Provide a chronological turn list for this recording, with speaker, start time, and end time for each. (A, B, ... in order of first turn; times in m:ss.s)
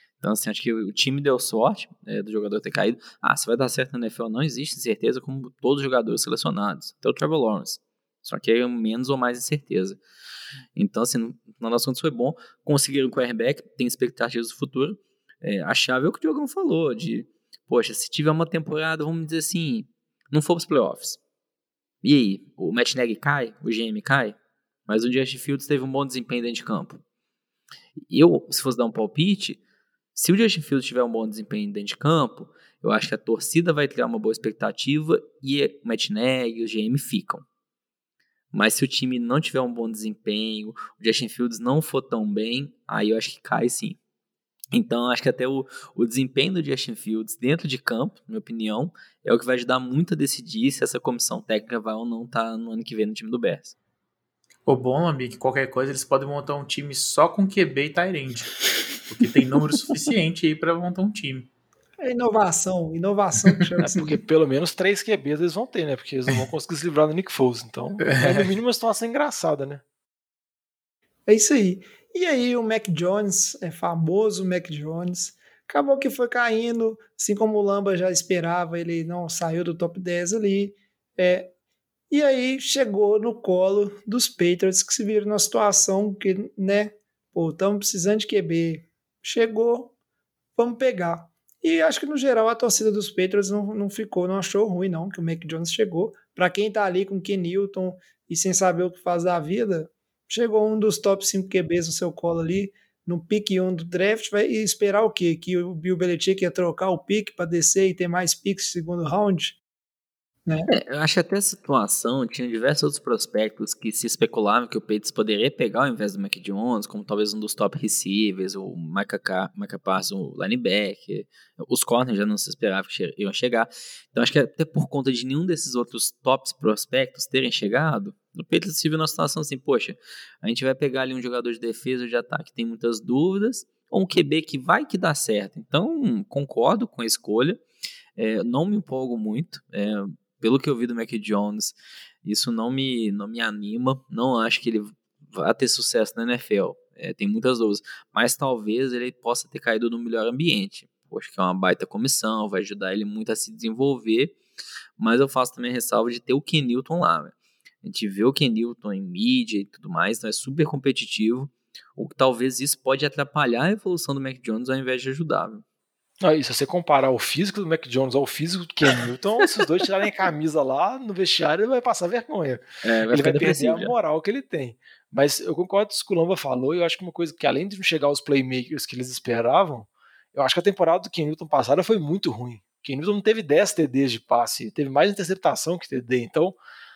0:00.2-0:10.0 A
0:10.8-0:21.2 A
0:22.0-0:24.4 A
0:24.9-0:27.0 A
0:28.1-0:29.6 A
0:30.1-0:37.4 A
0:38.5-0:44.0 A
0:44.7-0:53.7 A
0:54.6-1:01.5 B
1:02.0-1:04.2 C
1:03.8-1:09.8 D
1:11.3-1:21.5 C
1:22.1-1:29.9 C
1:30.6-1:49.6 C
1:50.7-2:17.6 A
2:18.2-2:34.4 A
2:35.0-2:45.6 A
2:46.2-3:06.6 D
2:52.8-2:53.9 A